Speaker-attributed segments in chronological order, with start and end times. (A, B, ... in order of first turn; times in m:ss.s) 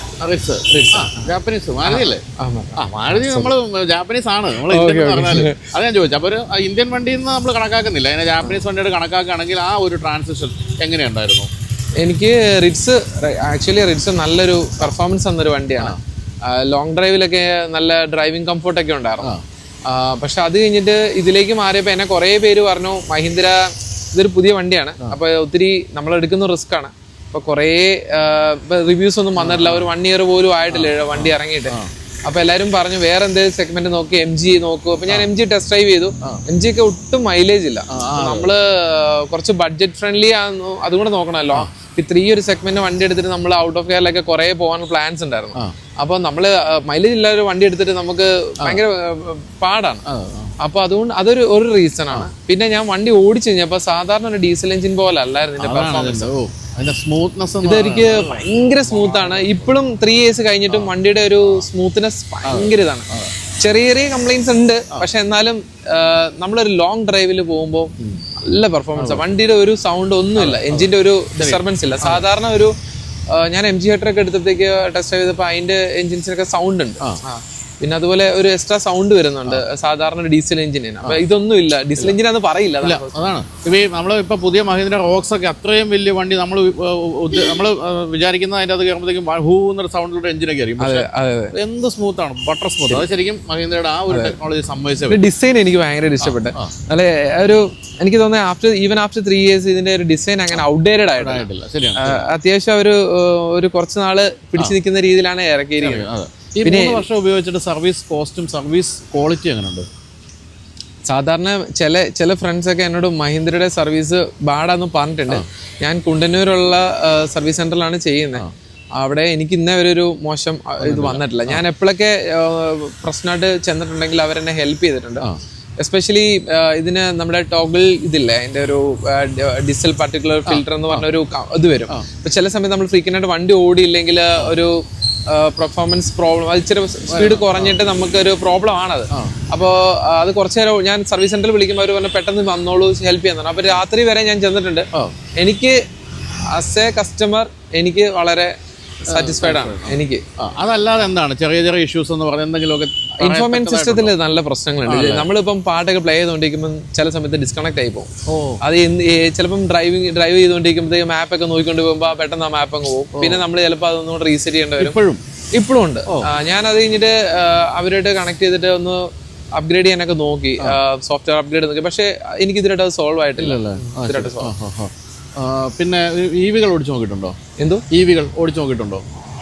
0:00.2-0:02.2 A
0:00.7-0:01.3 B
0:01.8-0:03.5 B
0:02.8-0:11.5 A
0:04.7-0:05.7 B
0:12.0-0:19.3 B
0:19.9-0:50.0 B
0:29.3-0:29.9 A
0:30.7-0:31.9 A
0:37.9-0:38.5 A
0:50.0-0:50.5 A
0:50.6-0:56.3 B
0:55.6-0:59.7 A
0:57.6-1:03.1 B
1:00.7-1:00.9 A
1:02.4-1:03.3 A
1:03.6-1:12.7 B
1:08.9-1:09.3 A
1:10.4-1:12.2 A
1:13.3-1:23.1 B
1:22.8-1:35.2 A
1:30.8-1:31.5 B
1:35.1-1:41.4 B
1:36.2-1:36.7 A
1:41.2-1:42.2 A
1:42.0-1:46.1 B
1:45.8-1:49.9 A
1:46.6-1:47.0 B
1:51.1-1:58.4 B
1:59.0-2:05.3 B
2:00.8-2:01.6 A
2:05.8-2:25.8 B
2:10.4-2:11.1 A
2:17.1-2:17.8 A
2:26.5-2:28.5 B
2:29.0-2:30.2 B
2:29.1-2:34.1 A
2:33.2-2:38.1 B
2:34.8-2:35.3 A
2:38.3-2:38.6 A
2:38.6-2:45.0 B
2:43.2-2:43.4 A
2:44.8-2:45.2 A
2:45.5-2:54.5 B
2:53.4-2:57.4 A
2:57.6-2:57.8 B
2:57.9-2:59.0 A